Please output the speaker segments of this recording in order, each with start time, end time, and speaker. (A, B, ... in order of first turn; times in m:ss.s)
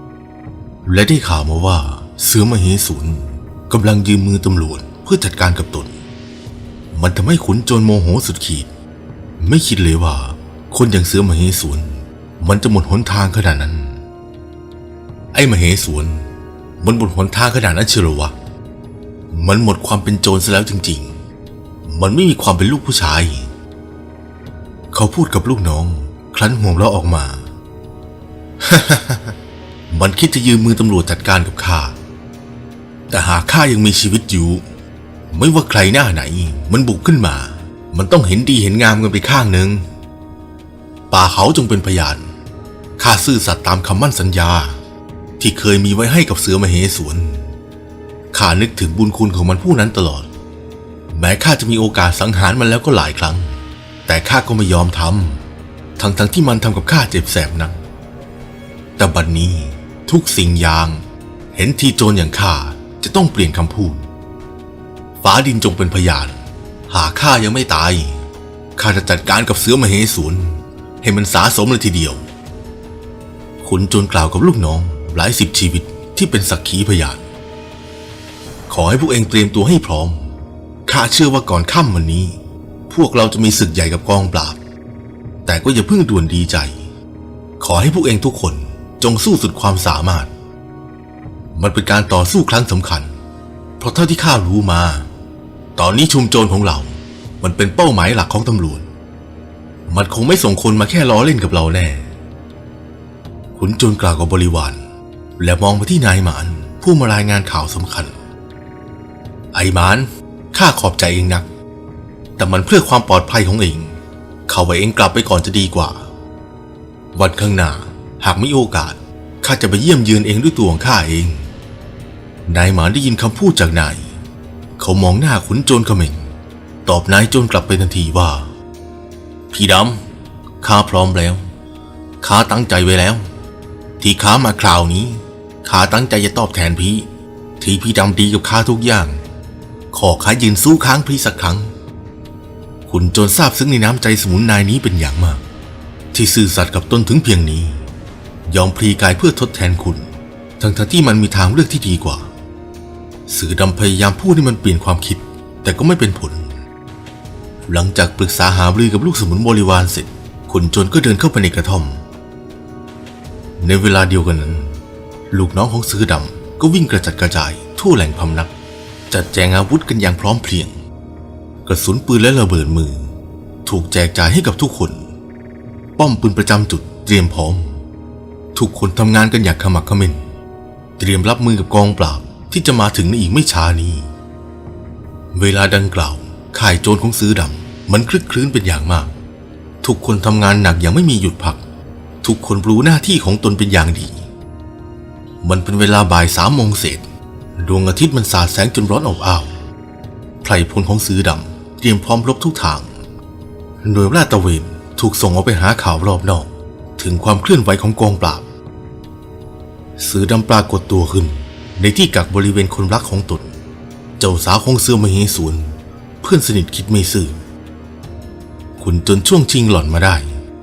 0:00.8-0:05.9 A
0:06.9-0:08.7 A
0:09.4-0:14.0 A
0:15.3-0:18.4 A
0:19.3-0:21.2 A
0:21.8-0:23.5 A
0:24.9-0:27.5 A
0:28.6-0:29.4 A
0:29.9-0:32.0 A
0:33.1-0:34.6 A
0:35.3-0:39.8 A
0:41.1-0:42.3 A
0:43.0-0:44.8 A
0:45.4-0:47.5 A
0:48.3-0:50.3 A
0:51.1-0:55.4 A
0:56.0-0:57.8 A
0:59.0-1:04.1 A
1:05.2-1:08.2 A
1:08.8-1:12.2 A
1:13.6-1:17.2 A
1:18.7-1:24.6 A
1:25.4-1:26.8 A
1:27.6-1:30.3 A
1:31.5-1:33.1 A
1:33.8-1:35.1 A
1:35.8-1:38.9 A
1:39.9-1:42.1 A
1:43.5-1:44.8 A
1:45.4-1:48.2 A
1:49.5-1:51.5 A
1:52.4-1:56.1 A
1:57.1-2:01.5 A
2:02.4-2:04.2 A
2:04.8-2:06.3 A
2:06.8-2:08.5 A
2:09.5-2:10.0 A
2:10.6-2:11.5 A
2:12.2-2:13.3 A
2:14.0-2:19.2 A
2:19.9-2:21.7 A
2:22.9-2:25.4 A
2:26.1-2:27.9 A
2:28.4-2:32.3 A
2:33.3-2:36.6 A
2:37.7-2:42.0 A
2:43.6-2:44.8 A
2:45.3-2:48.5 A
2:49.1-2:50.8 A
2:51.6-2:53.1 A
2:53.6-2:55.1 A
2:56.0-2:57.8 A
2:58.5-3:00.2 A
3:01.0-3:04.1 A
3:05.3-3:09.1 A
3:09.8-3:11.6 A
3:12.2-3:14.2 A
3:15.4-3:19.6 A
3:20.4-3:22.9 A
3:23.8-3:28.5 A
3:30.0-3:33.5 A
3:34.2-3:37.4 A
3:38.8-3:40.4 A